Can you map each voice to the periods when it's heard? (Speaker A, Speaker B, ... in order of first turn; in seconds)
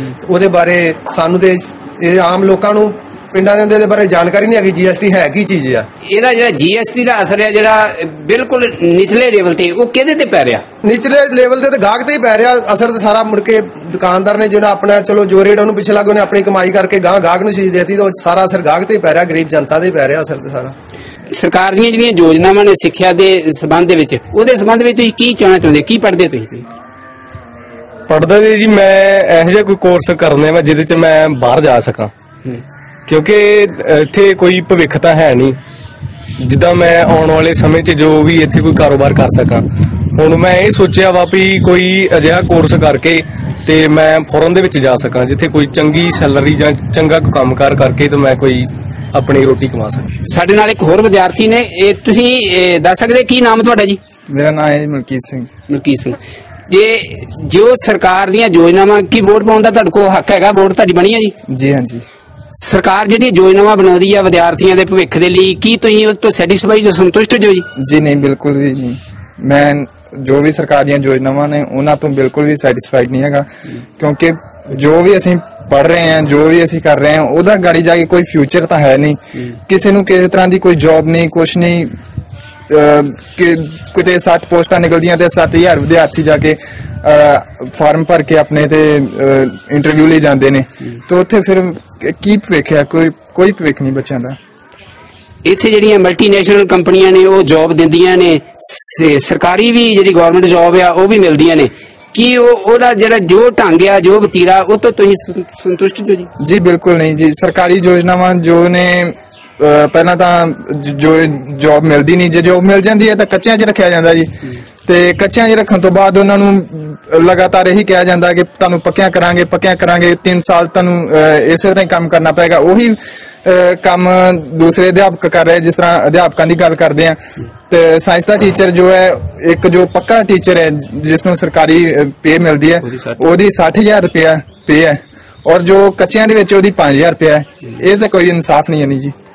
Speaker A: 0.2-5.8, 10.8-20.7
Speaker B: 6.0-10.6, 21.4-26.6, 50.3-54.0, 55.7-56.2, 56.7-61.3, 62.6-67.7, 95.5-106.3
Speaker C: 28.1-32.1, 33.1-35.6, 36.4-50.1
Speaker D: 54.3-55.5, 61.5-62.0, 67.8-73.5, 74.0-81.9, 82.7-94.3, 106.4-114.3, 114.8-139.1